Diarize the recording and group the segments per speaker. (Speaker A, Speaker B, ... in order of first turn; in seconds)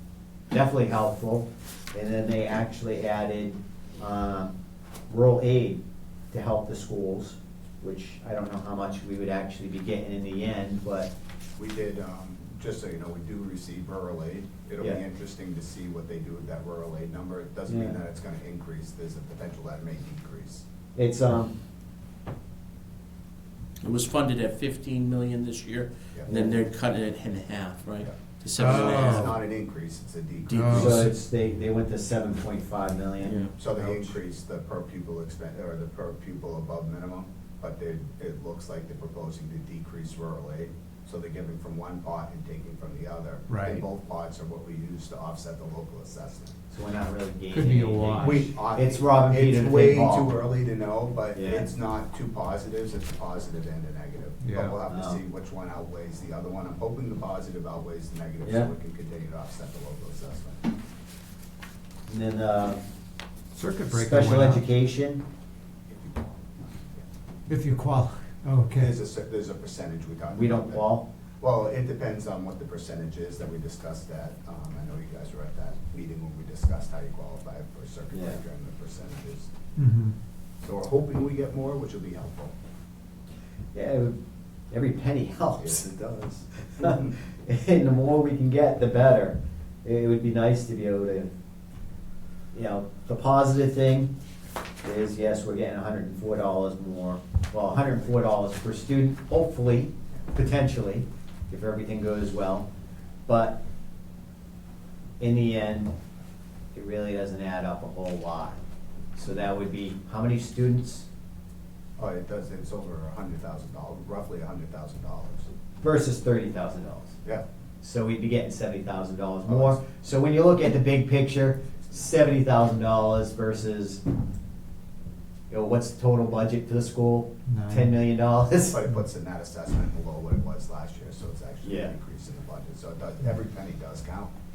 Speaker A: 0.5-4.5, 5.1-11.1, 17.7-18.0, 20.9-21.5, 26.3-26.7, 30.8-33.5, 46.7-50.4, 51.3-51.7, 54.9-55.2, 58.4-58.7, 62.1-62.8, 63.9-65.2, 70.3-71.1, 78.1-78.4, 83.7-84.2, 84.7-85.9, 86.7-91.3, 92.5-94.1, 94.8-102.7, 103.3-103.6, 105.2-106.0, 106.7-108.6, 109.2-111.1, 115.8-117.2, 117.8-124.0, 125.5-128.8, 131.6-131.9
Speaker B: 11.6-20.6, 28.0-31.0, 33.5-46.5, 48.2-60.6, 65.9-67.1, 68.8-79.5, 80.6-82.5, 85.6-87.2, 112.0-115.5, 119.5-119.8, 128.7-134.3
Speaker C: 23.8-29.4, 30.5-31.0, 33.2-33.6
Speaker D: 28.5-29.4, 30.5-31.1, 43.5-43.9, 47.5-48.5, 54.4-54.8, 63.5-64.6, 67.5-69.0, 79.8-80.2, 127.5-128.0